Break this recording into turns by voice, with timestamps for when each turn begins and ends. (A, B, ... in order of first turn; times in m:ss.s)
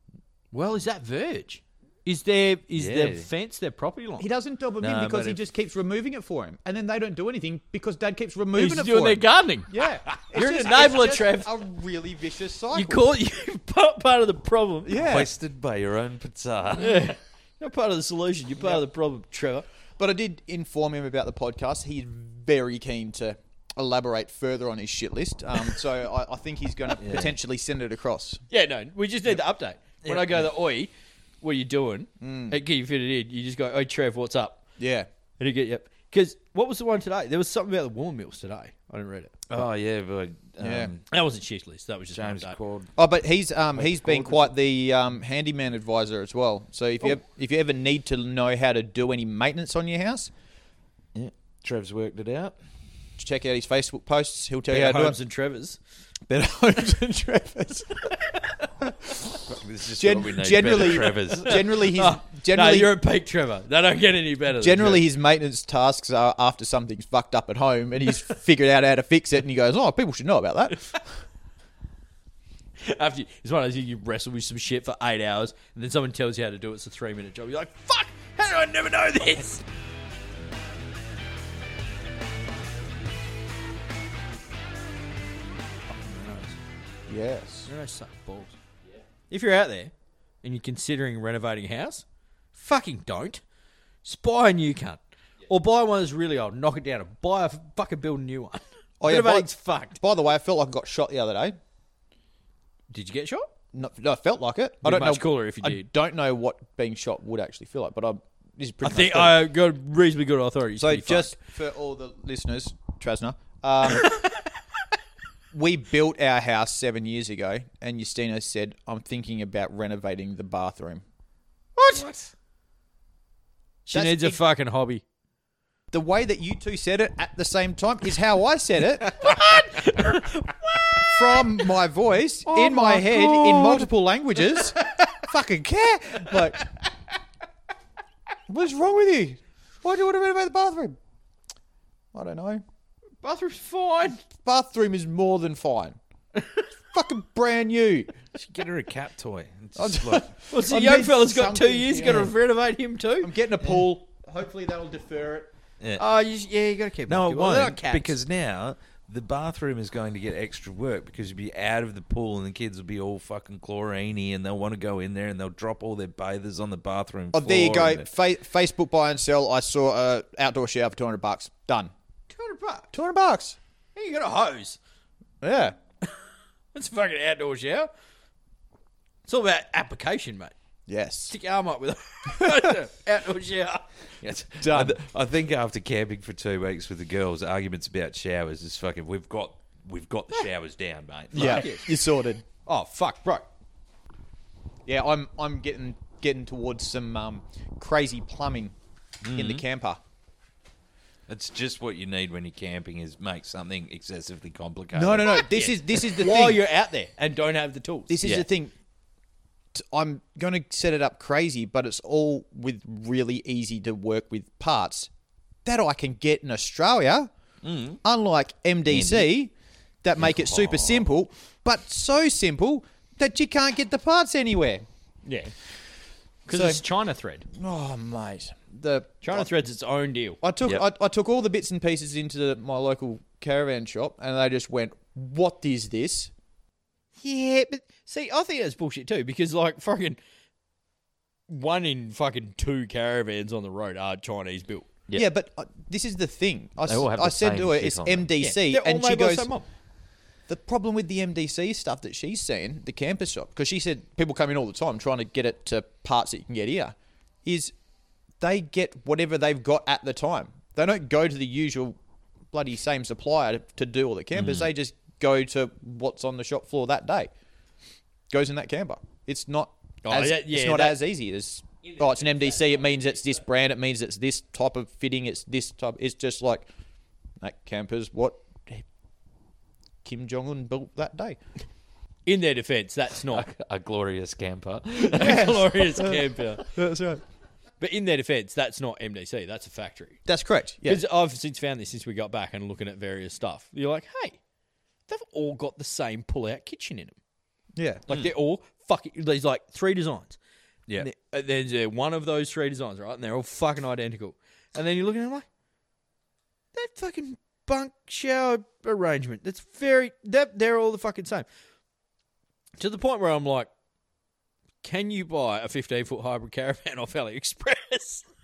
0:00.5-0:04.3 A
0:02.8-0:03.3 B
0:04.2-0:13.1 C
0:04.8-0:05.4 B
0:08.6-0:09.7 A
0:10.3-0:11.5 A
0:12.7-0:15.0 A
0:14.9-0:15.3 C
0:14.9-0:17.1 B
0:16.8-0:19.7 A
0:20.0-0:28.4 C
0:27.0-0:27.4 B
0:28.5-0:34.6 A
0:30.0-0:30.4 B
0:32.2-0:32.6 C
0:34.8-0:35.1 C
0:35.4-0:39.4 A
0:39.5-0:41.0 B
0:40.6-0:40.9 C
0:41.1-0:42.6 A
0:42.1-0:42.9 B
0:43.0-0:50.3 C
0:43.8-0:44.5 A
0:51.2-0:52.6 B
0:53.2-0:55.2 C
0:54.7-0:55.8 A
0:56.3-0:58.1 C
0:58.8-0:59.4 C
0:59.4-1:01.9 B
1:00.0-1:02.9 C
1:01.5-1:05.1 A
1:04.6-1:11.0 C
1:12.8-1:19.6 A
1:25.9-1:26.6 A
1:27.1-1:27.7 C
1:27.7-1:28.6 A
1:29.3-1:33.4 A
1:34.0-1:40.0 A
1:39.0-1:41.6 C
1:42.9-1:43.5 A
1:43.7-1:49.4 C
1:44.8-1:45.9 A
1:48.8-1:51.4 A
1:50.8-1:54.2 C
1:55.5-2:01.0 C
2:01.9-2:02.3 B
2:03.9-2:05.0 A
2:03.9-2:04.4 C
2:05.9-2:09.3 C
2:09.0-2:11.5 A
2:11.1-2:16.7 C
2:12.5-2:13.9 A
2:18.5-2:21.0 C
2:22.1-2:22.6 C
2:23.2-2:24.2 A
2:24.4-2:26.0 C
2:26.4-2:26.7 A
2:26.9-2:28.1 C
2:28.4-2:30.3 B
2:29.8-2:32.3 C
2:30.5-2:33.3 A
2:33.2-2:35.5 C
2:36.0-2:38.2 A
2:37.1-2:48.1 B
2:47.3-2:51.9 C
2:52.3-2:52.9 A
2:52.9-2:53.6 C
2:54.0-2:54.8 A
2:55.4-2:55.8 C
2:56.7-2:57.9 A
2:59.3-3:00.5 A
3:00.9-3:01.3 C
3:01.3-3:03.9 A
3:02.3-3:02.7 C
3:04.2-3:11.8 B
3:04.6-3:05.0 C
3:11.3-3:11.9 A
3:11.3-3:12.4 C
3:12.7-3:13.5 A
3:14.9-3:18.8 C
3:19.2-3:19.6 B
3:19.4-3:20.0 C
3:21.3-3:25.5 B
3:24.9-3:26.6 C
3:25.3-3:28.2 A
3:28.1-3:28.7 C
3:29.7-3:35.1 C
3:35.6-3:37.3 C
3:37.6-3:38.0 B
3:38.0-3:44.8 C
3:38.9-3:39.3 B
3:40.2-3:41.0 B
3:45.3-3:45.5 A
3:46.5-3:47.5 A
3:46.5-3:46.8 C
3:47.5-3:49.5 C
3:49.2-3:50.4 A
3:50.4-3:56.3 C
3:57.2-4:00.2 A
4:01.5-4:04.9 A
4:05.1-4:09.5 C
4:06.9-4:08.3 B
4:08.4-4:09.7 A
4:10.5-4:17.7 C
4:18.4-4:22.0 C
4:22.5-4:27.3 C
4:24.3-4:24.7 B
4:28.3-4:36.7 C
4:30.0-4:31.0 A
4:37.4-4:38.8 C
4:40.0-4:41.4 C
4:42.3-4:43.5 A
4:43.3-4:45.8 B
4:45.0-4:46.7 A
4:45.2-4:47.2 C
4:47.8-4:50.2 A
4:50.3-4:51.0 C
4:50.9-4:54.4 A
4:55.1-4:57.2 A
4:57.8-4:58.0 C
4:58.1-5:00.4 A
5:01.0-5:05.5 A
5:06.7-5:11.5 A
5:12.8-5:13.7 A
5:14.8-5:18.2 A